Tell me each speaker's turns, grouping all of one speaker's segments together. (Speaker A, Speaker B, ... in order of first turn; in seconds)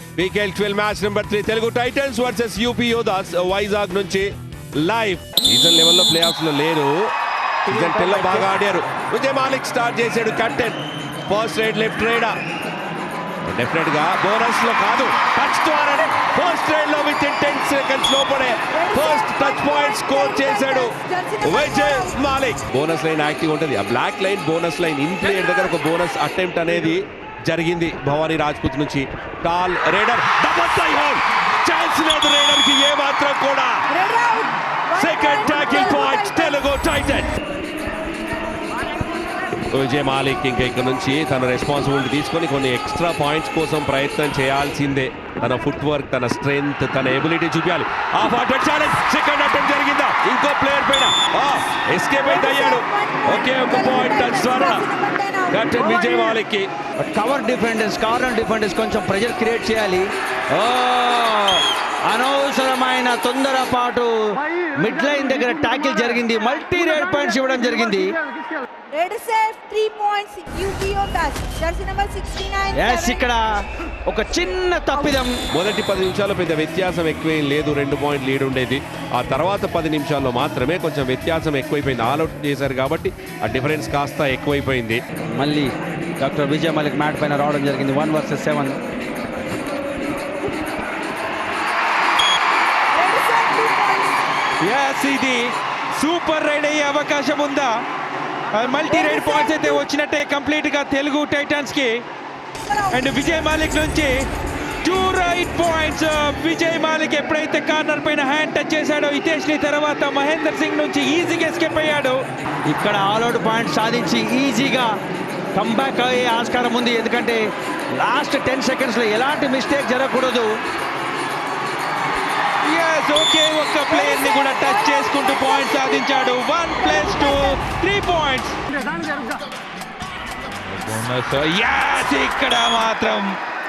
Speaker A: 0.1-6.9, 7.7-12.3, 13.4-33.8, 35.0-37.3, 39.6-54.9, 55.5-56.7, 75.5-85.0
Speaker B: 7.7-8.5, 57.0-68.2, 72.7-75.3, 85.3-88.8, 112.7-115.0, 115.5-120.5
Speaker C: 18.7-22.2, 33.9-36.7, 52.2-56.3, 68.9-73.2, 92.9-94.2, 98.8-99.8, 102.6-103.6, 123.9-127.6
Speaker D: 94.6-97.8, 98.5-102.0, 102.9-104.3, 104.8-112.2, 122.6-128.6, 130.6-133.4